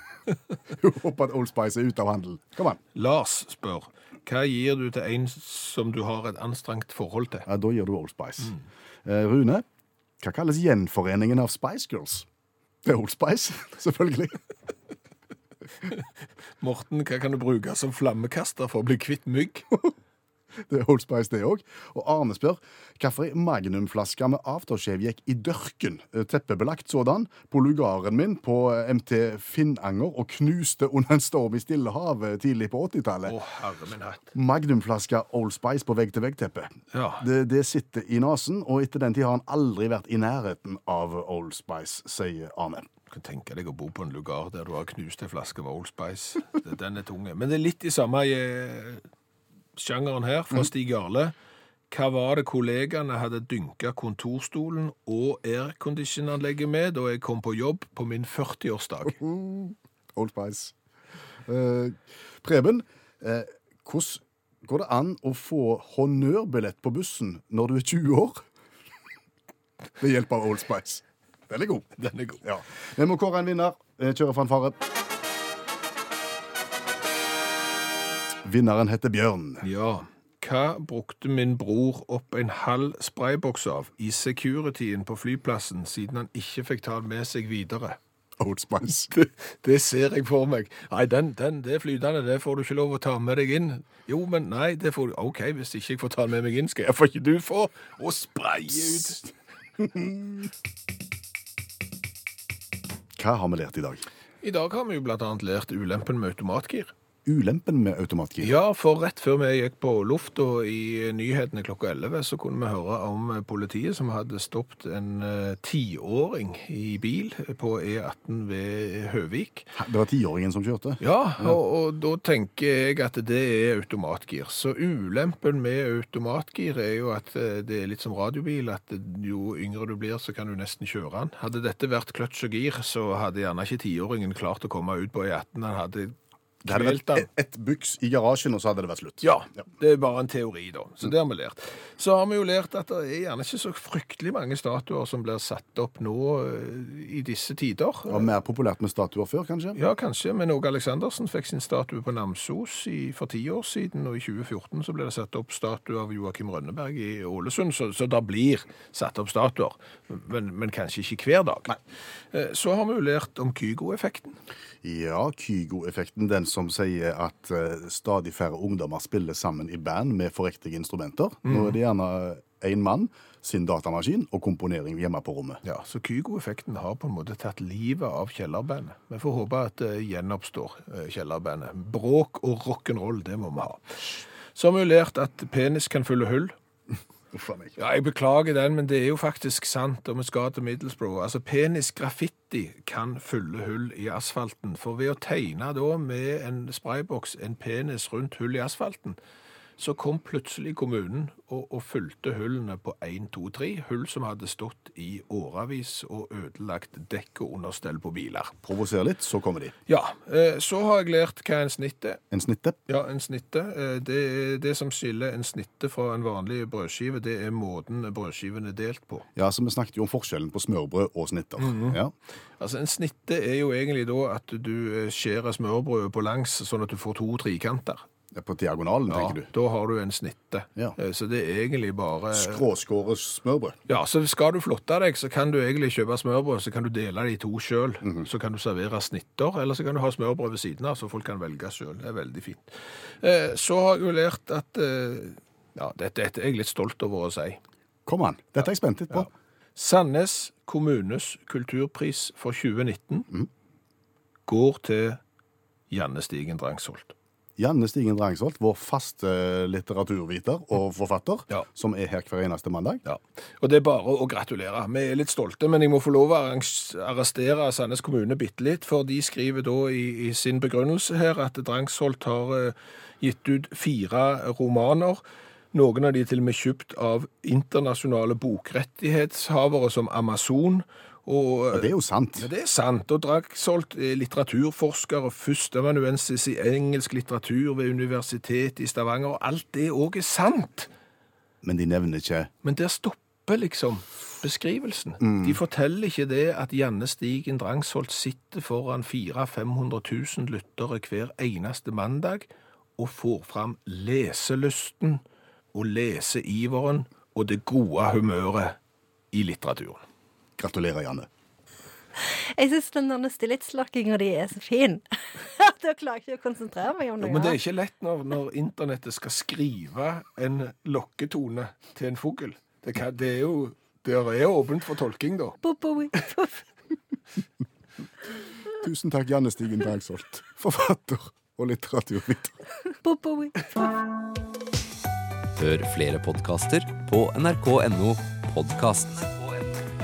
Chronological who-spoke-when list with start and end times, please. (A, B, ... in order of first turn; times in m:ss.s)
0:00.8-0:02.8 A
0:03.0-0:07.5 B
0:07.5-0:09.6 A
0:10.2-0:12.3 A
0:12.8-0:14.4 A
0:16.6-0:19.7 B
0:20.7-0:33.4 A
0:33.2-0:34.3 B
0:34.3-0:42.9 A
0:36.9-0:37.2 B
0:43.1-0:49.0 B
0:49.8-0:51.4 B
0:51.9-0:59.2 B
0:59.1-1:00.7 A
1:01.5-1:08.4 A
1:10.0-1:14.8 A
1:12.0-1:12.4 B
1:18.4-1:19.6 A
1:19.6-1:28.0 B
1:28.4-1:29.1 A
1:29.1-1:39.2 B
1:38.9-1:39.2 A
1:39.8-1:40.5 A
1:43.2-1:44.0 A
1:44.4-1:46.9 B
1:47.2-1:48.5 A
1:48.4-1:59.7 B
1:59.8-2:01.6 A
2:01.0-2:17.3 B
2:16.6-2:19.3 A
2:19.2-2:28.3 B
2:28.1-2:29.8 A
2:29.8-2:41.8 B
2:42.3-2:44.4 B
2:44.8-2:55.6 A
2:51.4-2:51.8 B
2:55.6-3:06.6 B
3:07.3-3:07.8 A
3:07.8-3:19.2 B
3:19.8-3:28.6 B
3:28.6-3:29.7 A
3:29.9-3:32.2 B
3:32.3-3:32.8 A
3:32.9-3:39.3 B
3:39.4-3:42.1 A
3:41.6-3:42.0 B
3:42.6-3:48.0 B
3:48.3-3:49.5 A
3:49.1-3:52.6 B
3:52.3-3:53.8 A
3:53.9-4:07.6 B
4:08.1-4:09.3 A
4:09.1-4:13.3 B
4:14.5-4:15.2 B
4:15.9-4:17.1 B
4:17.6-4:23.0 A
4:23.0-4:35.2 B
4:35.7-4:50.9 B
4:41.7-4:42.5 A
4:51.6-4:52.5 A
4:52.6-5:05.2 B
4:55.2-4:55.6 A
5:05.7-5:08.8 B
5:09.3-5:10.0 B
5:10.6-5:11.3 A
5:12.6-5:17.6 C
5:17.2-5:25.6 B
5:25.6-5:26.5 C
5:28.8-5:32.6 A
5:33.0-5:33.9 C
5:35.6-5:39.7 D